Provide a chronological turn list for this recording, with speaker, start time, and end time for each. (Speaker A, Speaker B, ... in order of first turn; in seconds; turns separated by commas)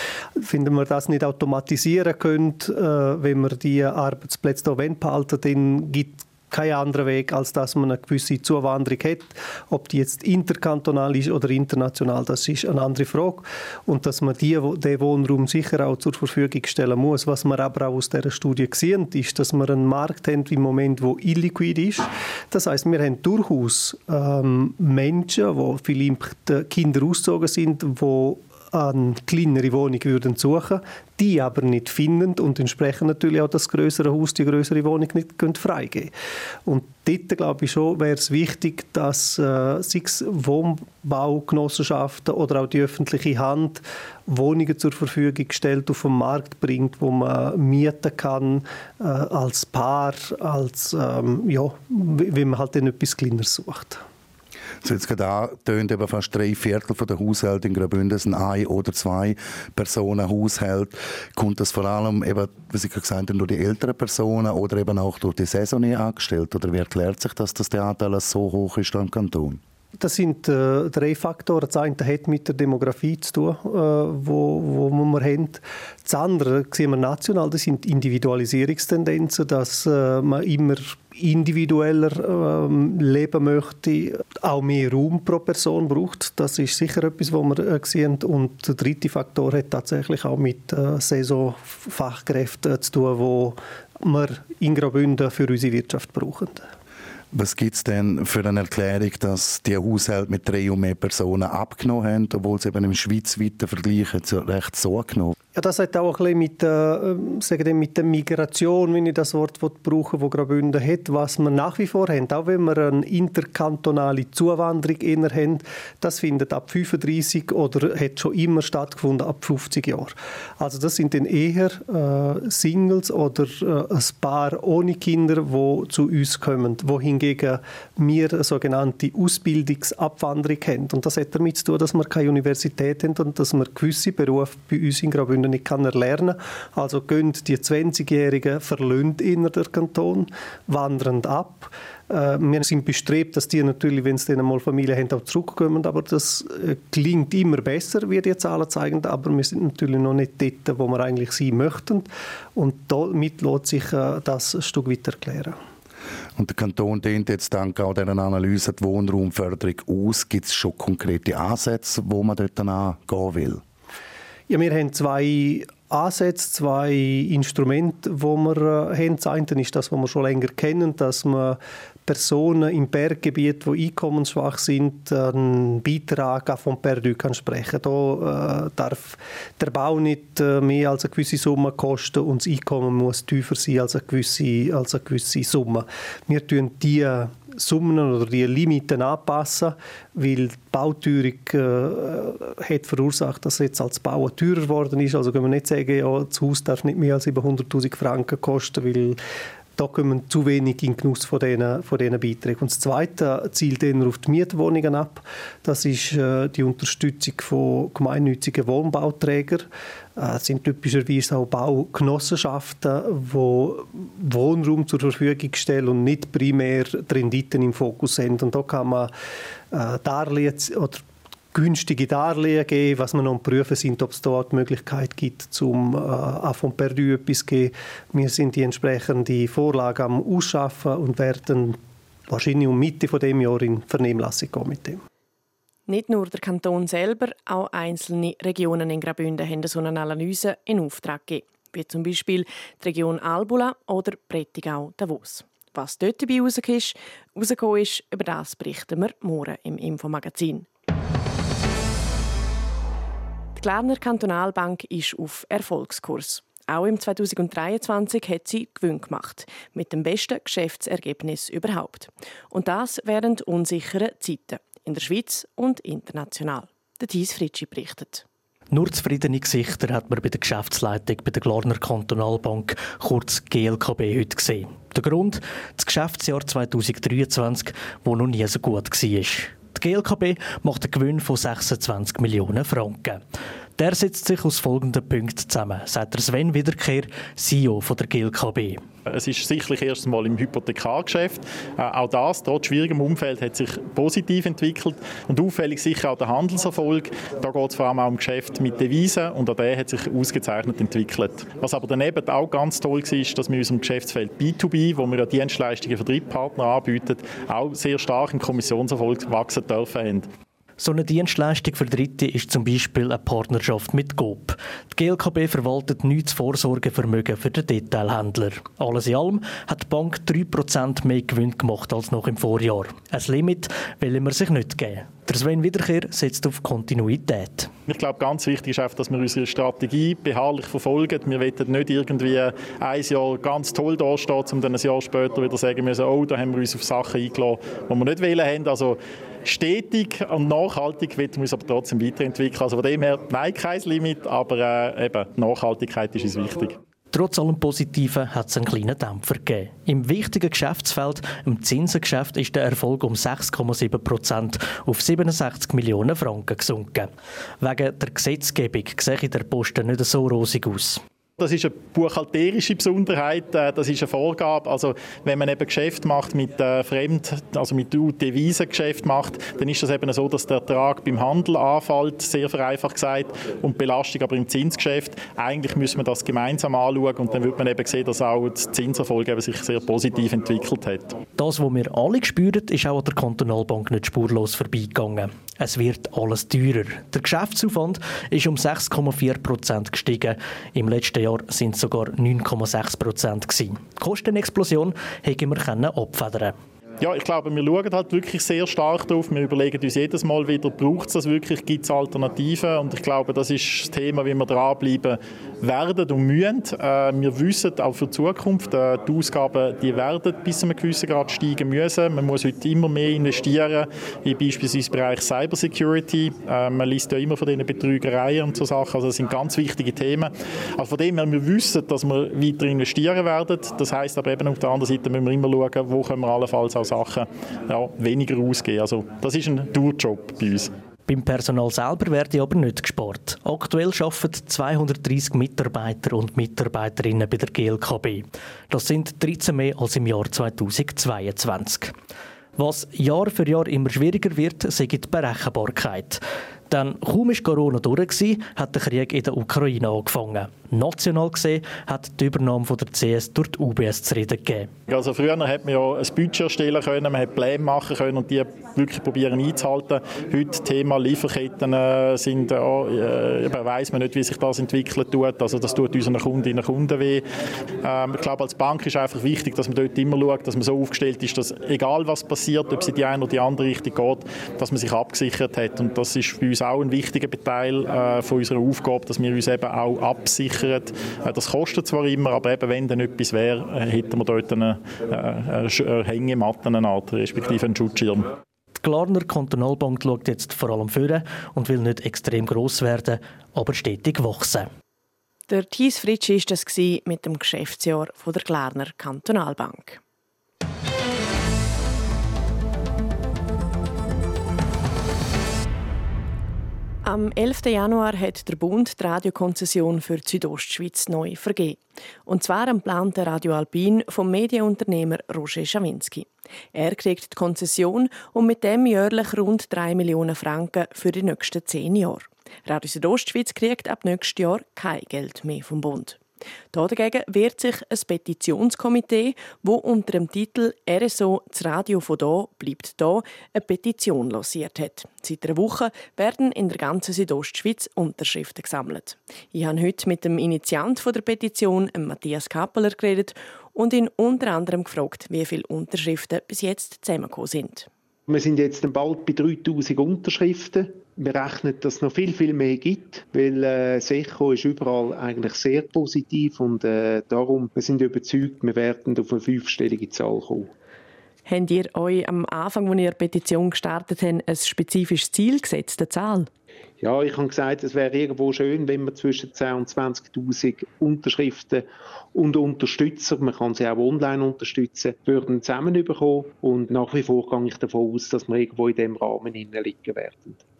Speaker A: 0.4-36.1, Speaker A: 36.6-54.0, Speaker B: 54.8-69.6, Speaker A: 70.0-96.7, Speaker B: 97.3-105.3, Speaker A: 105.5-155.6, Speaker B: 156.4-163.6, Speaker A: 164.5-199.2, Speaker A: 199.8-219.1, Speaker A: 219.7-235.0, Speaker C: 235.9-250.7, Speaker C: 253.6-268.2, Speaker D: 268.7-283.2, Speaker D: 283.8-288.8, Speaker E: 289.1-310.3, Speaker D: 310.8-327.7, Speaker E: 327.9-346.8, Speaker D: 347.1-361.0, Speaker E: 361.4-381.2, Speaker D: 381.4-396.6, Speaker E: 397.0-430.7, Speaker D: 431.1-441.9, Speaker D: 442.6-454.7, Speaker E: 454.9-467.2, Speaker E: 467.8-488.3, Speaker D: 488.8-494.7, Speaker C: 495.5-500.0, Speaker C: 507.1-526.2, Speaker C: 526.7-547.9, Speaker F: 548.3-560.7, Speaker C: 561.5-566.5, Speaker F: 567.0-580.6